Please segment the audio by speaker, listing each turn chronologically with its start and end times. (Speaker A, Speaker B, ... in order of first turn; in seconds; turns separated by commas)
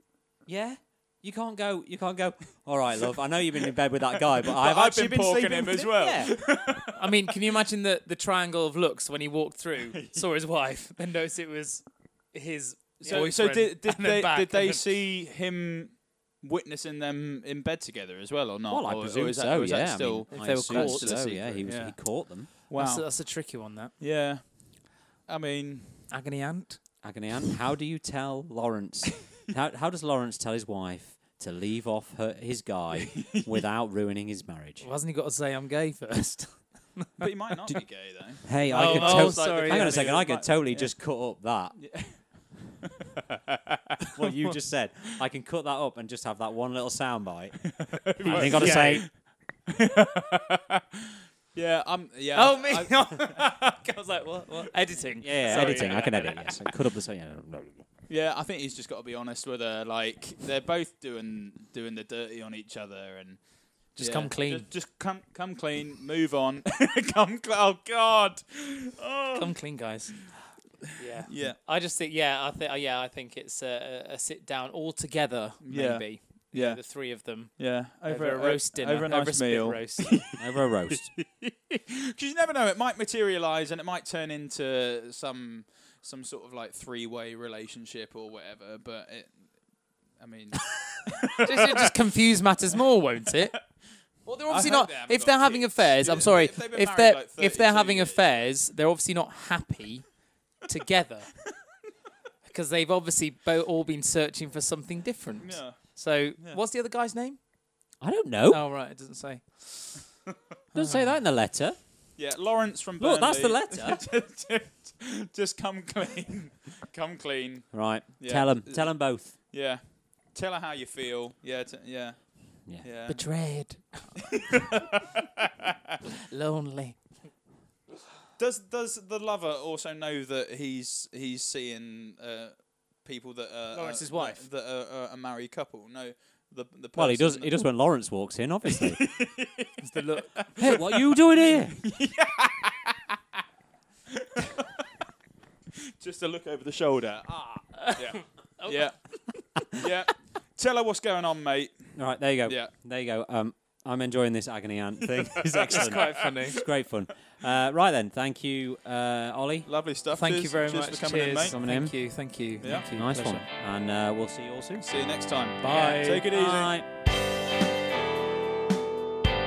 Speaker A: 0.5-6.3, Speaker B: 4.2-7.3, Speaker C: 6.9-14.8, Speaker B: 9.8-10.2, Speaker B: 13.0-23.1, Speaker A: 18.7-22.5, Speaker C: 20.3-21.2, Speaker C: 22.7-23.9, Speaker B: 24.0-26.1, Speaker C: 26.1-26.8, Speaker A: 27.0-34.9, Speaker B: 32.9-33.6, Speaker C: 34.8-37.2, Speaker B: 37.2-41.1, Speaker A: 38.4-41.8, Speaker C: 38.7-40.2, Speaker B: 41.7-44.3, Speaker A: 44.1-47.7, Speaker B: 47.9-49.1, Speaker C: 48.2-49.1, Speaker A: 48.2-49.1, Speaker B: 49.7-51.0, Speaker B: 51.5-53.4, Speaker C: 52.3-56.6, Speaker A: 55.2-57.8, Speaker B: 55.5-56.1, Speaker B: 58.1-63.4, Speaker B: 63.9-69.5, Speaker C: 64.0-64.7, Speaker C: 69.3-70.3, Speaker C: 70.9-80.3, Speaker B: 71.2-71.6, Speaker B: 75.6-89.4, Speaker A: 80.4-81.1, Speaker B: 90.2-91.9, Speaker C: 91.4-93.6, Speaker C: 94.2-101.4, Speaker B: 94.5-98.3, Speaker C: 102.4-107.4, Speaker B: 105.4-106.6, Speaker A: 108.0-108.6, Speaker C: 108.5-110.0, Speaker A: 110.7-111.8, Speaker C: 110.8-111.2, Speaker B: 112.2-123.9, Speaker A: 113.0-114.0, Speaker A: 117.7-119.3, Speaker C: 123.1-124.4, Speaker B: 124.6-125.7, Speaker C: 126.3-127.1, Speaker B: 128.4-137.7, Speaker C: 133.7-134.4, Speaker A: 136.9-139.0, Speaker B: 138.6-143.2, Speaker C: 139.8-140.4, Speaker A: 140.6-141.8, Speaker B: 144.1-144.8, Speaker B: 146.0-152.7, Speaker C: 147.8-149.4, Speaker A: 151.9-159.7, Speaker B: 155.2-156.3, Speaker C: 155.7-156.6, Speaker B: 159.7-161.6, Speaker C: 160.1-163.4, Speaker A: 161.5-162.0, Speaker B: 162.6-162.9, Speaker A: 162.9-164.9, Speaker B: 164.8-166.7, Speaker C: 165.6-166.3, Speaker A: 166.3-166.8